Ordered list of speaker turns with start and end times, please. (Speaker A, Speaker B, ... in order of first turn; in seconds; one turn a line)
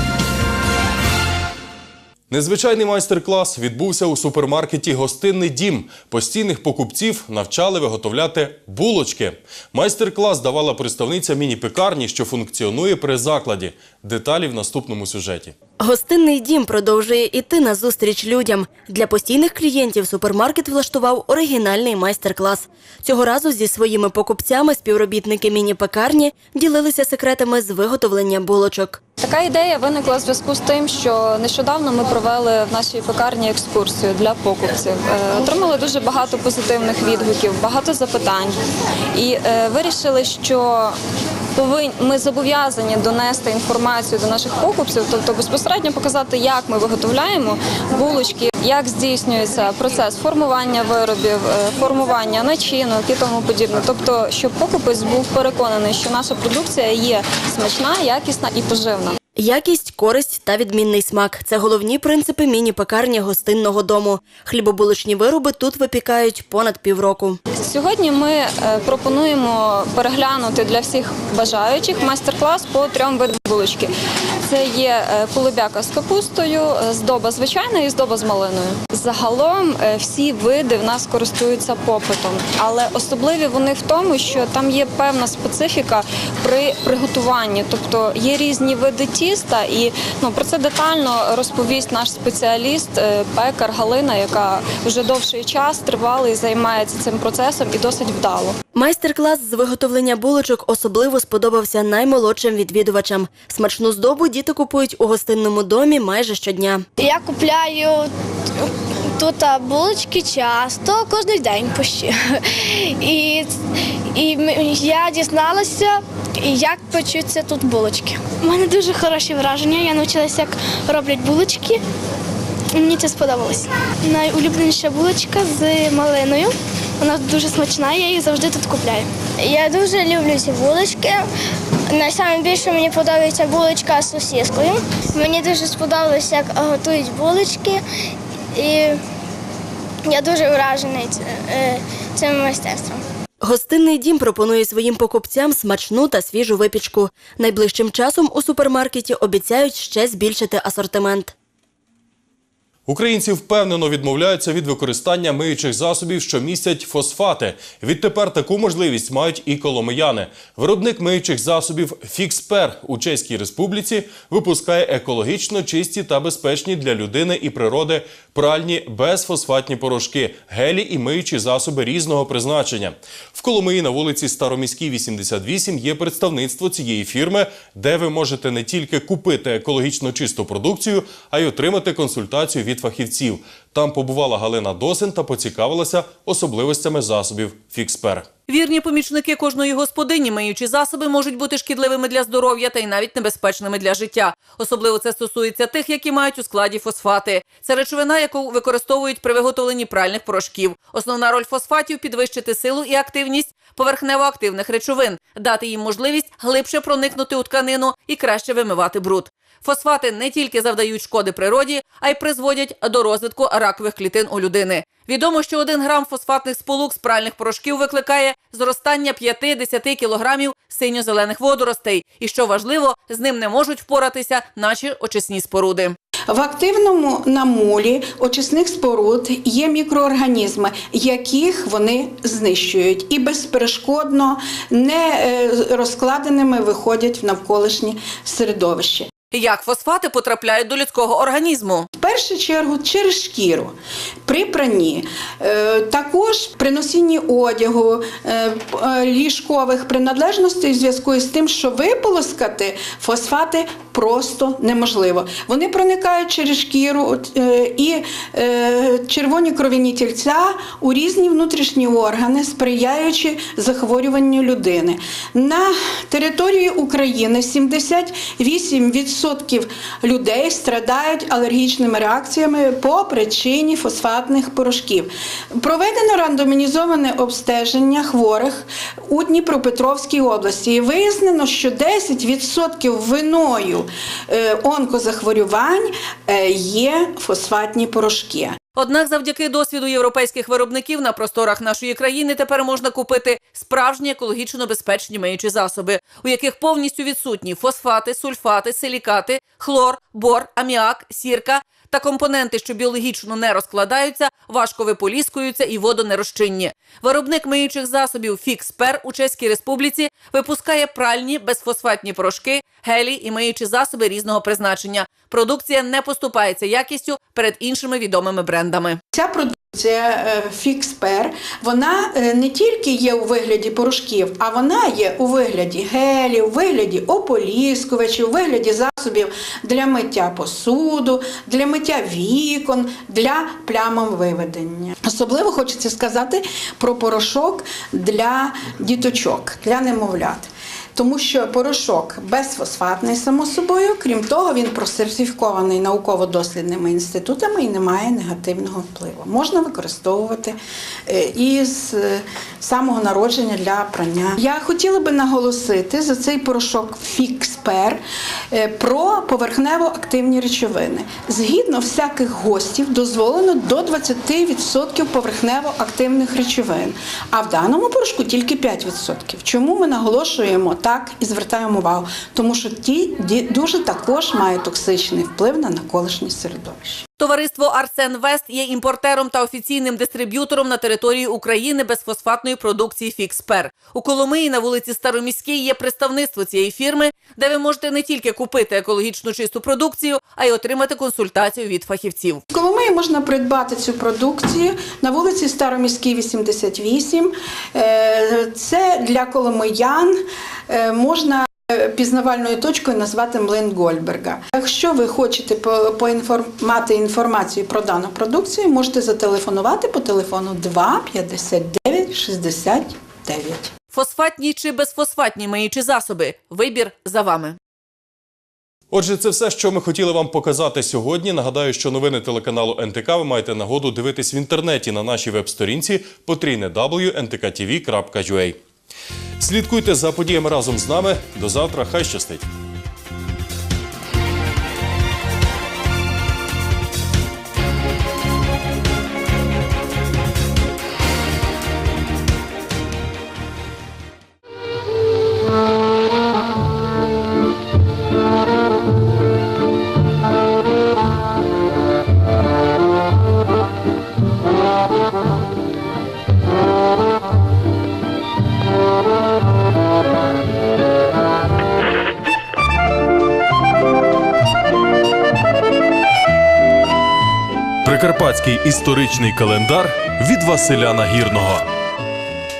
Speaker A: 2.3-15.5
Speaker B: 15.8-29.0
Speaker C: 29.2-38.6
Speaker C: 39.1-41.0
Speaker C: 41.5-59.2
Speaker B: 59.4-67.4
Speaker C: 67.5-73.9
Speaker C: 74.4-98.6
Speaker B: 98.7-106.8
Speaker D: 107.0-113.5
Speaker D: 114.1-121.8
Speaker D: 122.7-131.2
Speaker D: 131.9-137.8
Speaker D: 138.5-139.0
Speaker D: 140.1-143.0
Speaker B: 143.4-151.3
Speaker A: 152.9-188.2
Speaker E: 188.5-225.9
Speaker F: 226.3-239.1
Speaker E: 239.3-241.9
Speaker F: 241.9-288.6
Speaker E: 288.8-319.0
Speaker F: 319.1-377.0
Speaker E: 377.2-392.4
Speaker F: 392.5-413.7
Speaker E: 413.9-417.6
Speaker A: 418.9-428.6
Speaker A: 429.4-432.4
Speaker A: 467.8-471.7